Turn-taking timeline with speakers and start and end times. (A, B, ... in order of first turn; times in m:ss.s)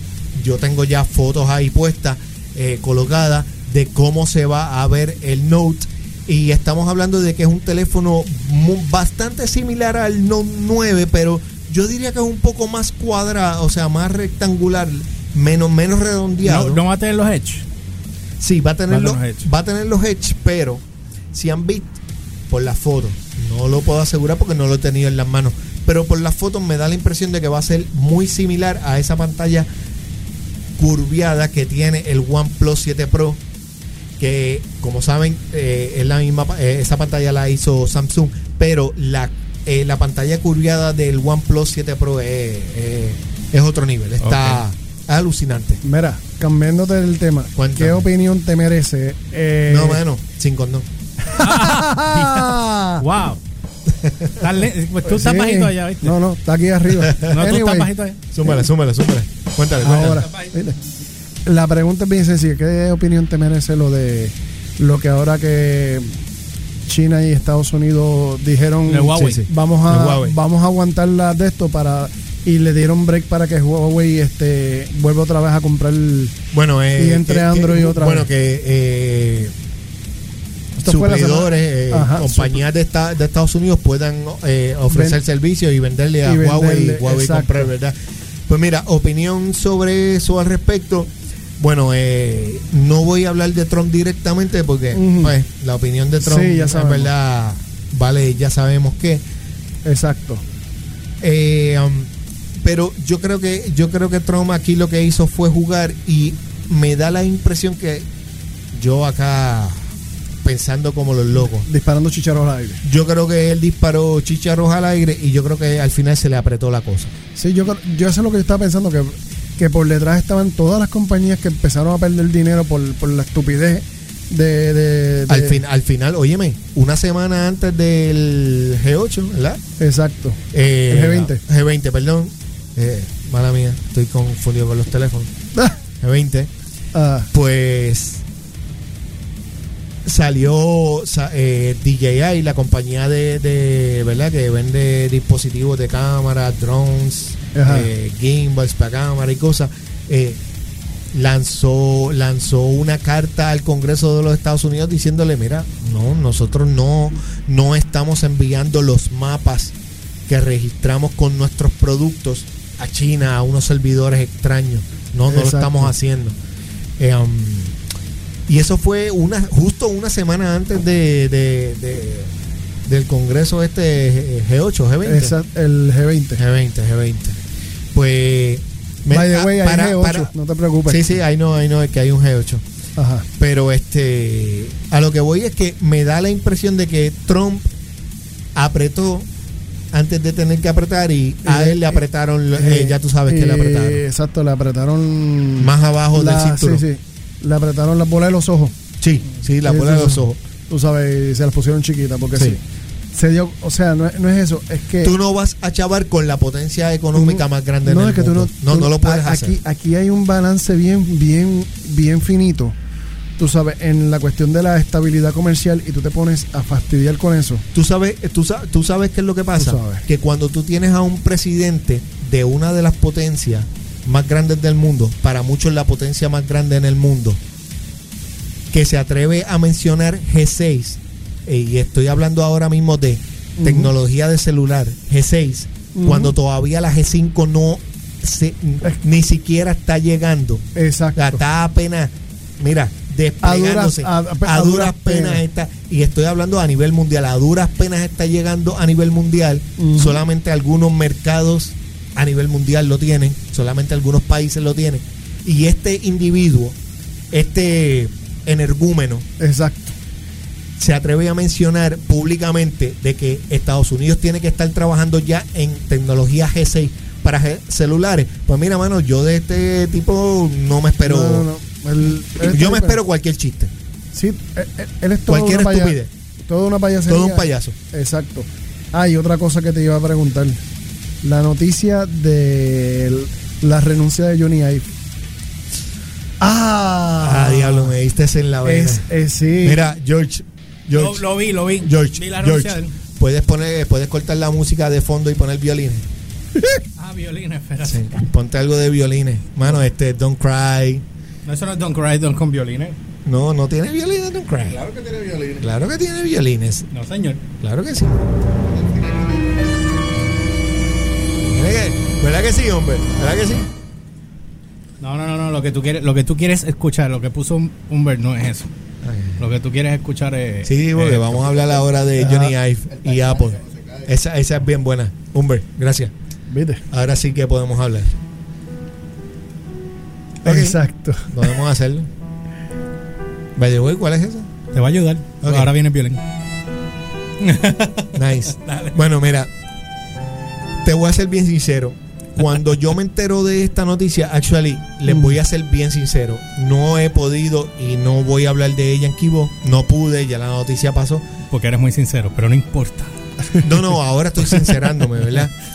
0:00.3-0:16.8 A
0:16.4-0:17.6 B
0:18.4-0:22.0 A
0:18.9-0:19.4 B
0:22.5-0:29.7 A
0:30.8-0:33.4 A
0:34.2-0:45.8 A
0:44.2-0:44.6 B
0:45.8-0:50.0 C
0:47.6-0:48.0 A
0:49.7-0:50.9 A
0:51.3-0:53.0 C
0:51.3-0:53.4 B
0:54.0-0:54.4 A
0:54.3-0:56.2 B
0:55.0-0:57.9 C
0:56.9-0:57.4 A
0:57.2-0:58.2 B
0:58.3-1:00.2 A
0:59.8-1:00.5 B
0:59.8-1:00.8 C
1:01.4-1:06.2 C
1:06.9-1:16.3 C
1:08.8-1:09.4 B
1:09.3-1:10.4 A
1:16.5-1:19.5 A
1:17.0-1:18.3 C
1:20.8-1:22.6 C
1:20.8-1:27.9 A
1:24.9-1:25.2 C
1:26.2-1:27.7 C
1:28.5-1:39.2 A
1:34.9-1:35.3 C
1:36.2-1:37.1 C
1:39.8-1:40.4 C
1:41.2-1:48.1 A
1:48.7-1:49.9 A
1:50.4-1:51.7 A
1:51.6-1:52.8 C
1:52.8-1:57.1 A
1:57.4-2:05.6 C
2:05.3-2:09.6 A
2:09.8-2:11.4 C
2:10.5-2:15.3 A
2:16.0-2:16.5 A
2:16.9-2:17.3 C
2:17.3-2:18.2 A
2:20.0-2:30.4 A
2:27.5-2:27.9 C
2:31.1-2:39.7 A
2:40.3-2:46.4 A
2:45.3-2:45.9 C
2:47.0-2:47.7 A
2:48.5-2:52.3 A
2:52.9-2:55.3 A
2:55.0-2:56.4 C
2:56.4-2:57.4 A
2:57.9-3:00.3 A
2:59.1-3:01.2 C
3:00.8-3:02.6 A
3:03.0-3:03.2 C
3:03.4-3:07.7 A
3:08.6-3:09.3 A
3:09.9-3:14.0 A
3:11.4-3:12.0 C
3:12.5-3:18.7 C
3:15.6-3:16.8 A
3:19.0-3:20.4 A
3:19.6-3:22.6 C
3:23.1-3:25.1 C
3:25.0-3:29.6 A
3:27.1-3:32.7 C
3:33.4-3:37.6 C
3:37.7-3:47.4 A
3:39.6-3:40.0 C
3:48.7-4:00.6 A
3:53.6-3:53.9 C
3:55.9-3:56.3 C
4:00.7-4:01.4 C
4:01.2-4:16.8 A
4:03.4-4:05.4 C
4:09.8-4:10.2 C
4:17.3-4:19.2 A
4:19.4-4:19.9 C
4:20.8-4:31.5 A
4:31.0-4:33.0 C
4:32.4-4:33.7 A
4:34.1-4:40.6 C
4:35.3-4:36.1 A
4:37.1-4:37.8 A
4:41.2-4:44.9 C
4:46.4-4:47.9 C
4:47.2-4:49.0 A
4:48.6-4:49.8 C
4:49.6-4:51.2 A
4:50.9-4:52.9 B
4:51.8-4:56.1 A
4:57.0-4:58.1 B
4:57.8-5:01.0 A
5:01.4-5:03.0 B
5:03.2-5:04.9 A
5:05.5-5:06.8 A
5:06.9-5:07.4 B
5:07.6-5:08.2 A
5:11.4-5:13.7 A
5:15.0-5:18.7 B
5:19.0-5:19.4 A
5:19.4-5:21.5 B
5:20.6-5:26.1 A
5:22.2-5:22.5 C
5:26.5-5:26.8 C
5:26.9-5:28.1 A
5:30.4-5:31.5 C
5:30.4-5:32.1 A
5:33.6-5:34.5 A
5:34.7-5:36.2 B
5:35.4-5:35.7 A
5:37.4-5:39.0 B
5:38.1-5:39.5 A
5:40.8-5:51.2 A
5:45.0-5:45.4 C
5:51.5-5:53.1 B
5:53.6-5:55.5 A